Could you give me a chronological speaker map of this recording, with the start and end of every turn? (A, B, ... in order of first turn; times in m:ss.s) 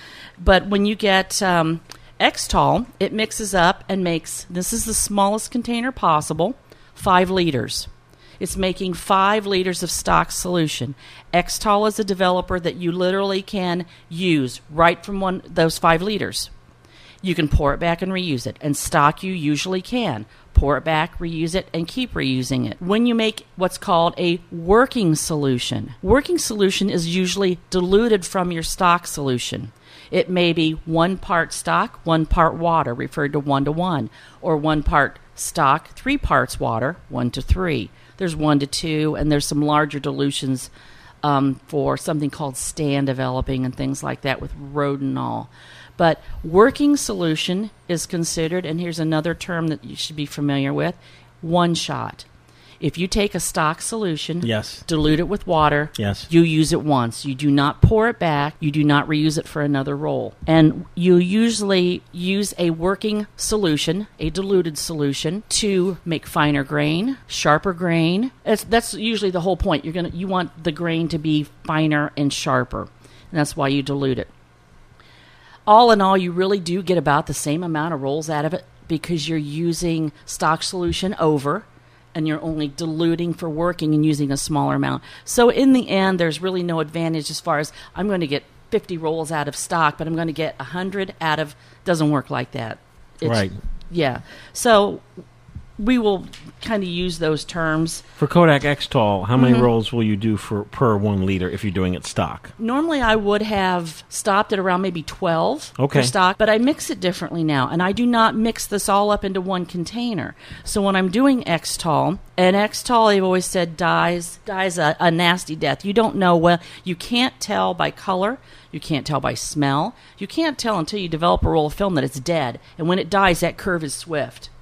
0:00.4-0:07.9 A
0:08.4-0:16.5 A
0:17.2-0:40.7 A
0:41.2-0:52.2 A
0:52.8-1:14.3 A
0:54.4-0:54.8 B
0:56.0-0:56.3 B
1:15.6-1:35.0 A
1:33.2-1:33.6 B
1:35.8-1:38.0 A
1:38.2-1:42.5 B
1:39.4-1:39.7 A
1:42.6-2:04.5 A
1:45.8-1:46.1 B